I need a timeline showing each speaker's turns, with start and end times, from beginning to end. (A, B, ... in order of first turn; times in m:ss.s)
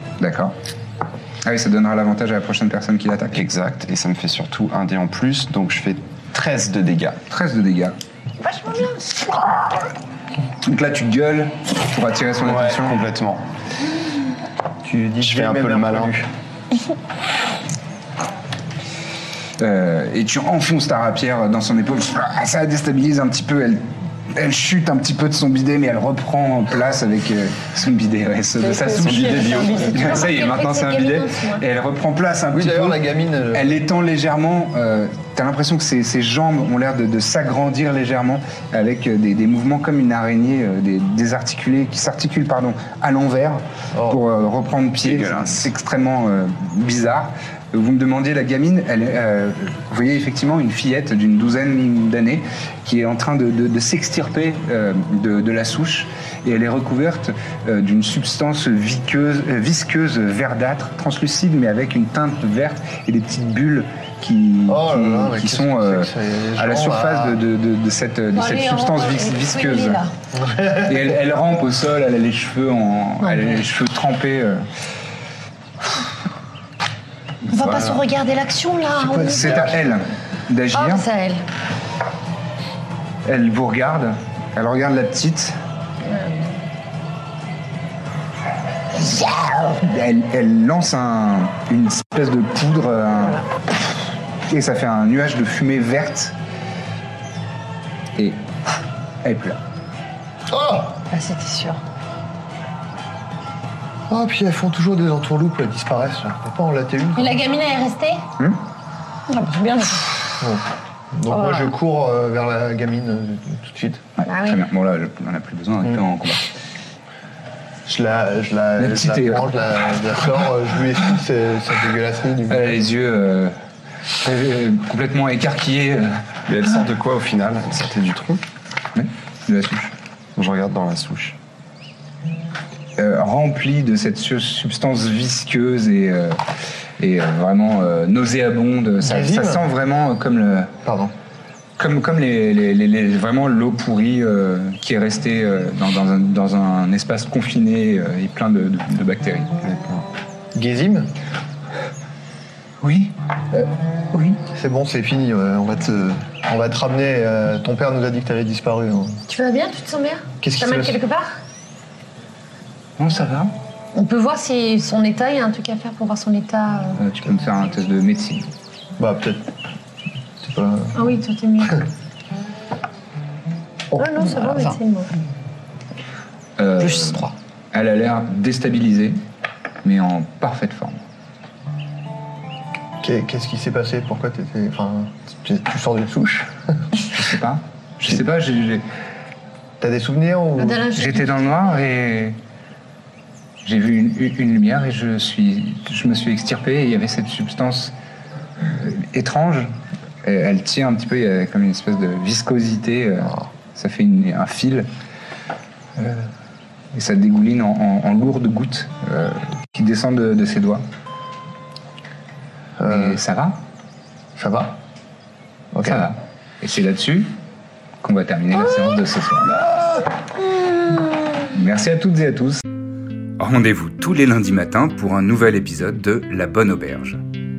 0:00.2-0:00.5 A
0:01.4-0:03.5 A
0:03.3-0:07.2 B
0:07.3-0:08.0 A
0:08.4-0:09.3 C
0:10.6-0:13.0 A
0:12.4-0:13.4 B
0:14.8-0:16.3 D
0:15.2-0:16.2 B
0:19.6-0:33.0 A
0:28.6-0:30.1 E
0:29.0-0:30.2 B
0:30.0-0:31.6 C
0:32.5-0:33.8 D
0:33.5-1:10.0 A
0:43.9-0:44.2 D
0:45.0-0:45.6 B
1:04.7-1:07.4 D
1:08.3-1:10.1 C
1:10.3-1:11.0 D
1:10.7-1:14.7 A
1:13.2-1:13.6 C
1:17.4-1:18.0 A
1:17.5-1:19.8 C
1:19.0-1:21.0 A
1:20.7-1:21.4 C
1:23.2-1:25.6 A
1:28.9-1:33.9 A
1:34.4-1:36.3 A
1:38.2-1:39.6 A
1:40.5-1:41.0 D
1:41.1-1:41.8 C
1:44.1-1:47.4 D
1:47.2-1:48.2 C
1:49.3-1:50.0 E
1:50.4-1:54.0 D
1:51.3-1:51.7 C
1:54.2-1:56.4 A
1:54.3-1:54.6 C
1:57.8-2:02.8 D
1:58.8-1:59.5 A
2:02.5-2:03.5 A
2:04.2-2:06.2 A
2:06.5-2:08.4 B
2:08.9-2:09.9 A
2:10.4-2:11.4 B
2:13.0-2:16.4 A
2:17.0-2:20.7 A
2:19.0-2:19.6 D
2:20.8-2:21.1 D
2:21.8-2:29.5 A
2:29.6-2:30.0 B
2:30.5-2:31.1 D
2:32.8-2:34.4 A
2:34.5-2:39.2 D
2:39.3-2:41.4 C
2:40.4-2:41.0 D
2:43.0-2:43.5 A
2:43.9-2:47.0 C
2:47.0-2:48.5 A
2:49.0-2:49.5 D
2:50.4-2:51.1 D
2:50.9-2:51.8 C
2:53.9-2:54.6 A
2:54.0-2:55.1 C
2:54.2-2:54.8 E
2:56.6-2:59.2 A
2:56.8-2:57.3 E
2:59.8-3:01.0 A
3:03.0-3:06.7 D
3:07.0-3:08.8 A
3:09.8-3:10.9 D
3:10.6-3:11.8 C
3:11.0-3:12.4 A
3:13.6-3:17.9 A
3:18.7-3:24.9 A
3:26.0-3:26.3 A
3:26.9-3:30.8 A
3:32.8-3:33.2 D
3:32.8-3:33.6 A
3:34.4-3:34.7 D
3:35.7-3:36.1 D
3:35.8-3:37.3 A
3:38.0-3:39.6 A
3:41.5-3:42.6 A
3:43.4-3:47.2 A